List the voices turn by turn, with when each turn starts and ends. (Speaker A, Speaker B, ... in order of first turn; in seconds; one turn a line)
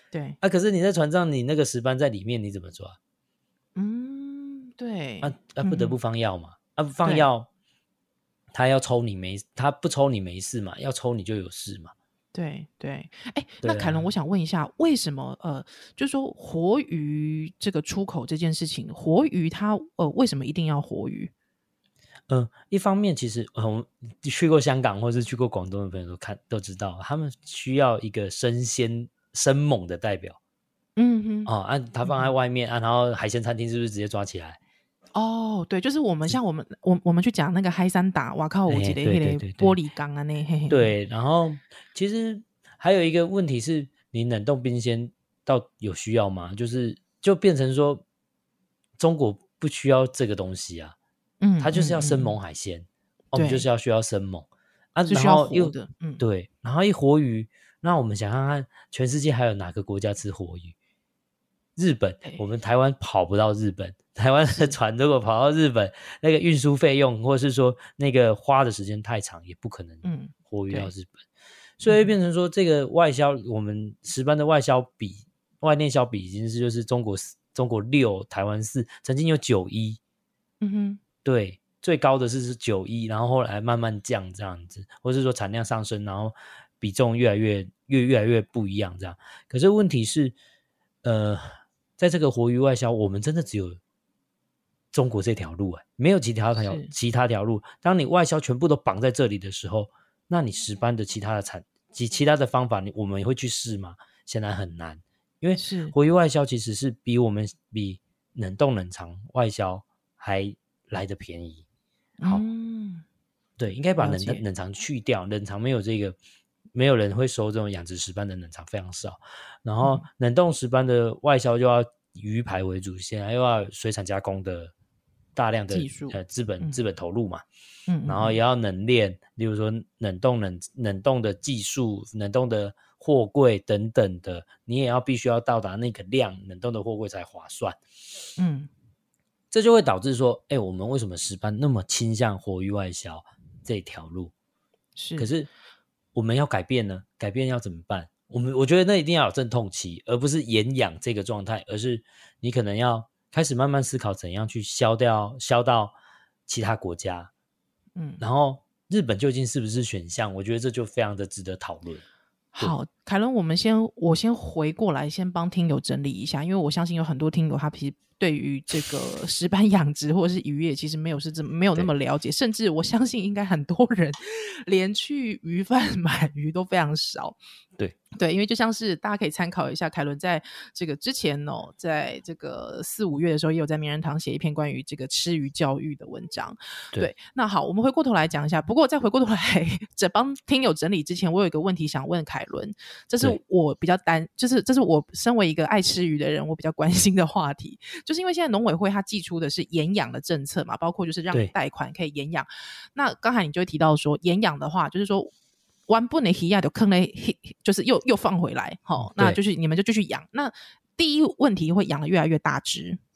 Speaker A: 0.1-0.4
Speaker B: 0.4-3.0
Speaker A: 3.7-6.0
Speaker B: 5.2-7.5
Speaker B: 8.5-11.9
Speaker A: 12.3-21.3
Speaker B: 13.6-14.1
Speaker B: 22.3-30.4
Speaker A: 30.9-31.5
Speaker B: 31.4-34.6
Speaker A: 32.0-32.3
Speaker A: 35.1-40.9
Speaker B: 38.7-39.8
Speaker B: 40.7-48.0
Speaker B: 49.0-51.0
Speaker A: 51.4-52.3
Speaker B: 51.6-60.7
Speaker A: 53.3-53.6
Speaker A: 55.1-56.2
Speaker B: 61.8-71.2
Speaker A: 64.5-64.7
Speaker A: 70.0-70.9
Speaker A: 71.8-72.1
Speaker B: 71.8-80.0
Speaker A: 80.6-81.0
Speaker B: 81.2-90.3
Speaker B: 91.0-93.8
Speaker B: 94.9-111.6
Speaker A: 96.6-96.9
Speaker A: 105.5-105.9
Speaker A: 112.2-113.0
Speaker B: 113.6-116.2
Speaker A: 114.0-114.4
Speaker B: 116.7-124.7
Speaker B: 125.3-127.4
Speaker A: 125.7-126.8
Speaker A: 127.9-128.4
Speaker B: 128.1-137.8
Speaker A: 138.4-138.7
Speaker B: 139.5-144.3
Speaker A: 144.9-145.3
Speaker B: 145.2-145.5
Speaker B: 146.1-155.9
Speaker B: 156.5-157.3
Speaker A: 157.9-158.2
Speaker B: 158.2-162.0
Speaker A: 162.5-177.4
Speaker A: 178.1-205.3
Speaker A: 205.9-213.0
Speaker B: 209.0-209.4